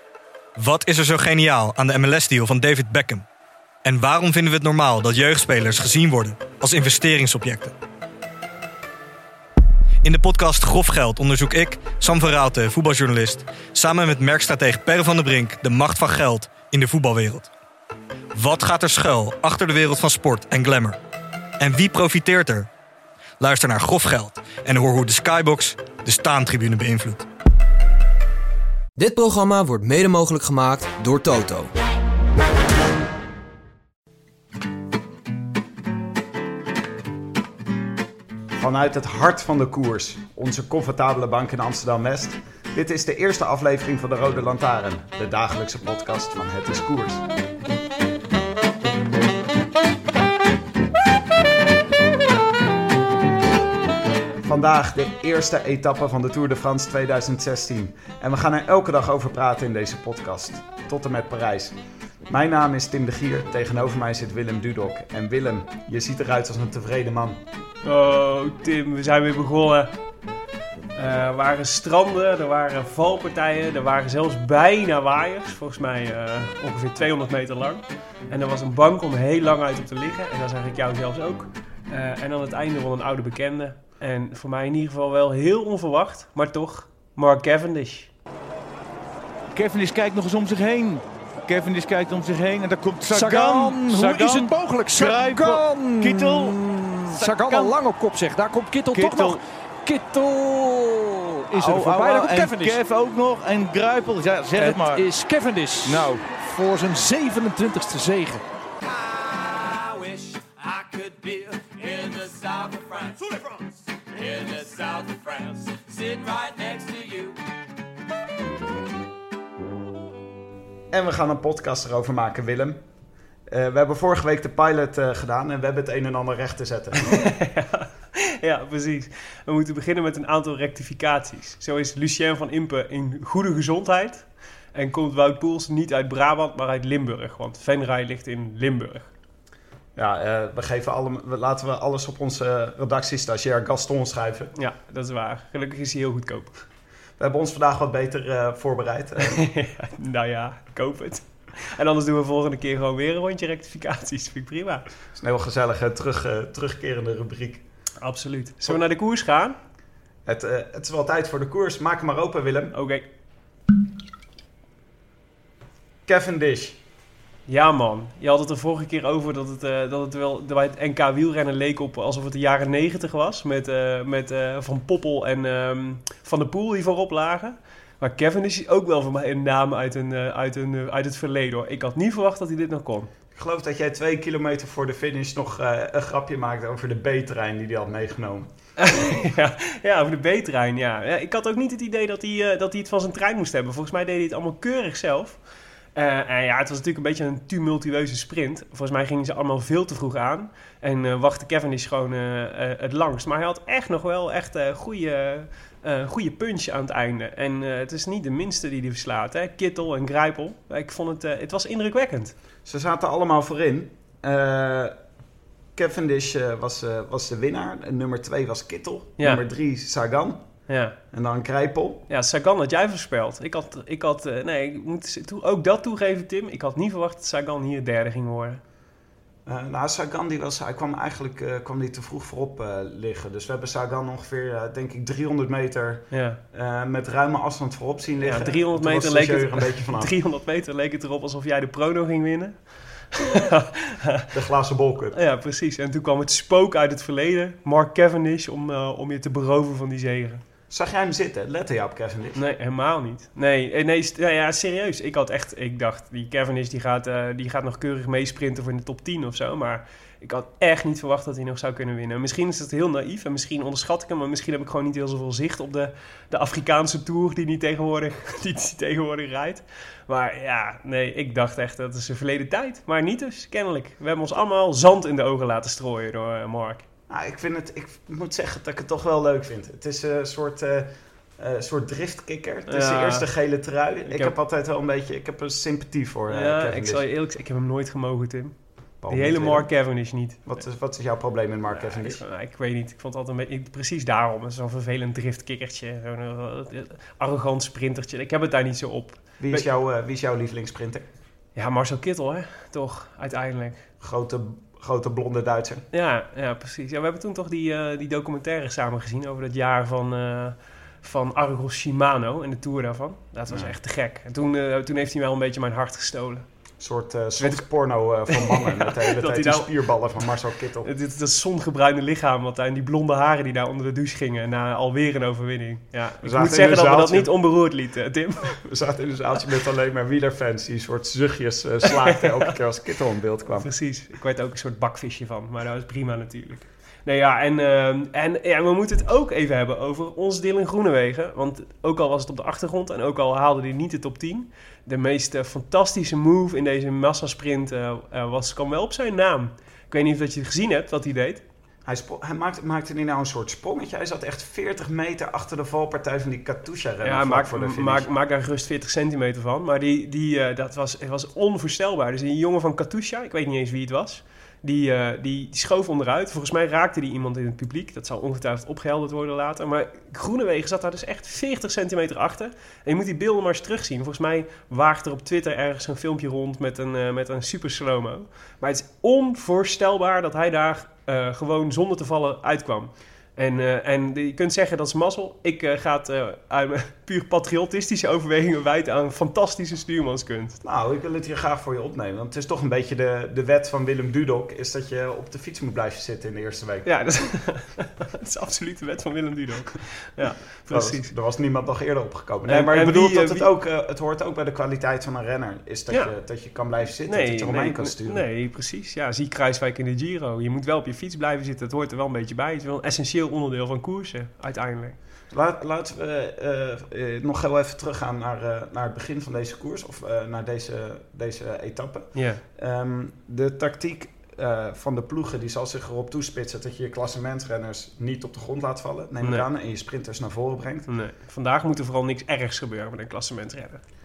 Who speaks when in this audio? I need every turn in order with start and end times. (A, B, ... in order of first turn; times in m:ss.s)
0:00.6-0:03.2 A
0:03.8-0:07.7 A
0:10.0-0:17.5 A
0:18.3-0:21.0 A
0:21.6-0:22.7 A
0:23.4-0:27.2 A
0:29.0-0:31.7 B
0:38.6-0:47.2 C
0:54.4-1:07.4 C
1:07.8-1:09.9 D
1:11.0-1:28.1 D
1:29.5-1:37.8 E
1:33.1-1:42.8 F
1:38.9-1:39.4 E
1:41.5-1:45.0 E
1:44.5-1:48.4 F
1:45.8-1:46.2 E
1:48.8-1:57.4 G
2:00.9-2:02.8 C
2:03.5-2:07.2 C
2:07.0-2:19.1 D
2:20.0-2:24.5 C
2:24.6-2:26.6 D
2:27.2-2:29.4 C
2:29.2-2:34.8 D
2:35.1-2:37.6 C
2:38.0-2:39.6 D
2:40.2-2:42.7 C
2:42.7-2:43.0 D
2:46.0-2:46.8 C
2:47.5-3:03.1 D
3:03.3-3:08.5 C
3:08.8-3:15.4 D
3:15.9-3:32.4 D
3:32.6-3:35.0 C
3:35.7-3:40.4 C
3:39.2-3:39.4 D
3:40.7-3:41.0 D
3:41.1-3:42.0 C
3:42.1-3:48.6 D
3:49.4-4:00.1 C
3:56.1-3:56.4 D
3:58.2-4:04.3 D
4:04.3-4:05.2 C
4:05.1-4:10.4 D
4:10.7-4:12.4 C
4:12.3-4:36.8 D
4:37.1-4:47.0 C
4:42.7-4:43.3 D
4:44.1-4:44.3 D
4:46.3-4:48.6 D
4:49.0-4:49.7 C
4:49.1-4:50.5 D
4:50.4-4:52.2 C
4:51.7-4:59.7 D
4:59.4-5:01.0 C
5:01.5-5:03.8 D
5:04.0-5:05.8 C
5:05.9-5:16.4 D
5:13.5-5:13.7 C
5:16.8-5:20.9 C
5:17.4-5:17.7 D
5:18.3-5:19.7 D
5:20.8-5:28.6 D
5:26.2-5:27.3 C
5:28.6-5:33.7 C
5:31.8-5:32.5 D
5:33.6-5:51.4 D
5:51.8-5:58.1 C
5:57.0-6:30.6 D
6:30.6-6:36.9 C
6:36.8-6:41.1 D
6:40.7-6:48.2 C
6:42.4-6:43.5 D
6:45.9-6:46.2 D
6:47.1-6:55.0 D
6:55.3-7:10.9 C
7:02.1-7:02.4 D
7:10.9-7:13.8 D